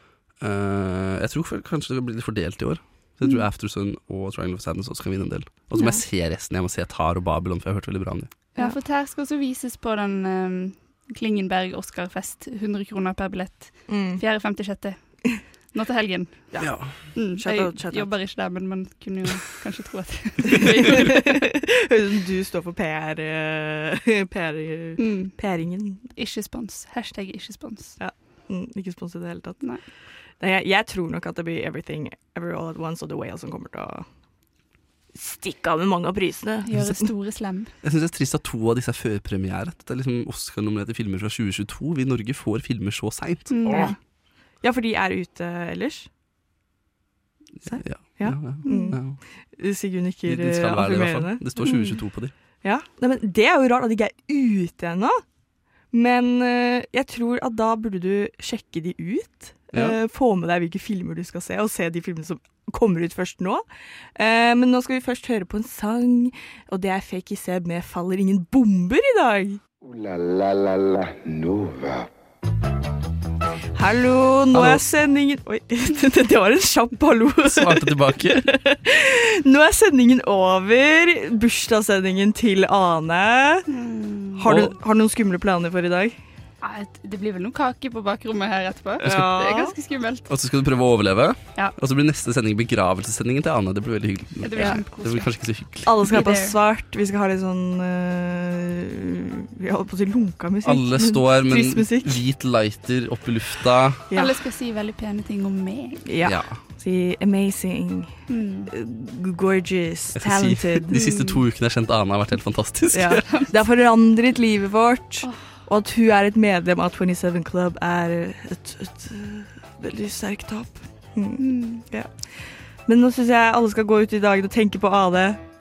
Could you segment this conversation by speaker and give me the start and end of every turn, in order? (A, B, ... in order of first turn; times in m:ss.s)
0:00.4-0:08.3 A
0:05.7-0:06.0 B
0:08.6-0:21.3 C
0:13.9-0:14.2 B
0:16.5-0:18.1 B
0:16.6-0:16.9 A
0:20.5-0:26.0 B
0:25.0-0:25.4 C
0:26.1-0:28.0 C
0:28.0-0:29.7 B
0:30.4-0:34.0 B
0:35.1-0:37.1 B
0:36.6-0:37.7 C
0:37.8-0:43.9 A
0:43.5-0:43.9 C
0:43.6-0:44.0 B
0:44.6-0:46.1 B
0:47.6-0:51.8 B
0:47.7-0:49.2 A
0:48.6-0:49.0 C
0:50.2-0:52.3 A
0:51.6-0:52.0 C
0:52.6-0:55.2 B
0:55.9-1:03.6 B
0:59.7-1:00.0 A
1:04.2-1:09.6 B
1:09.8-1:12.1 D
1:13.7-1:23.7 B
1:14.5-1:14.8 A
1:17.4-1:18.5 A
1:23.7-1:24.4 C
1:24.4-1:26.2 B
1:24.4-1:24.8 A
1:26.6-1:30.3 C
1:29.0-1:29.7 B
1:30.3-1:35.9 A
1:34.4-1:35.3 C
1:35.8-1:42.2 B
1:36.0-1:36.6 C
1:40.6-1:44.0 A
1:44.1-1:44.4 B
1:44.1-1:46.0 C
1:46.0-1:51.0 B
1:46.2-1:46.6 A
1:48.3-1:48.7 C
1:50.2-1:53.3 A
1:50.9-1:51.4 C
1:52.9-2:02.1 B
1:55.2-1:55.6 C
2:01.4-2:01.8 C
2:02.8-2:05.4 B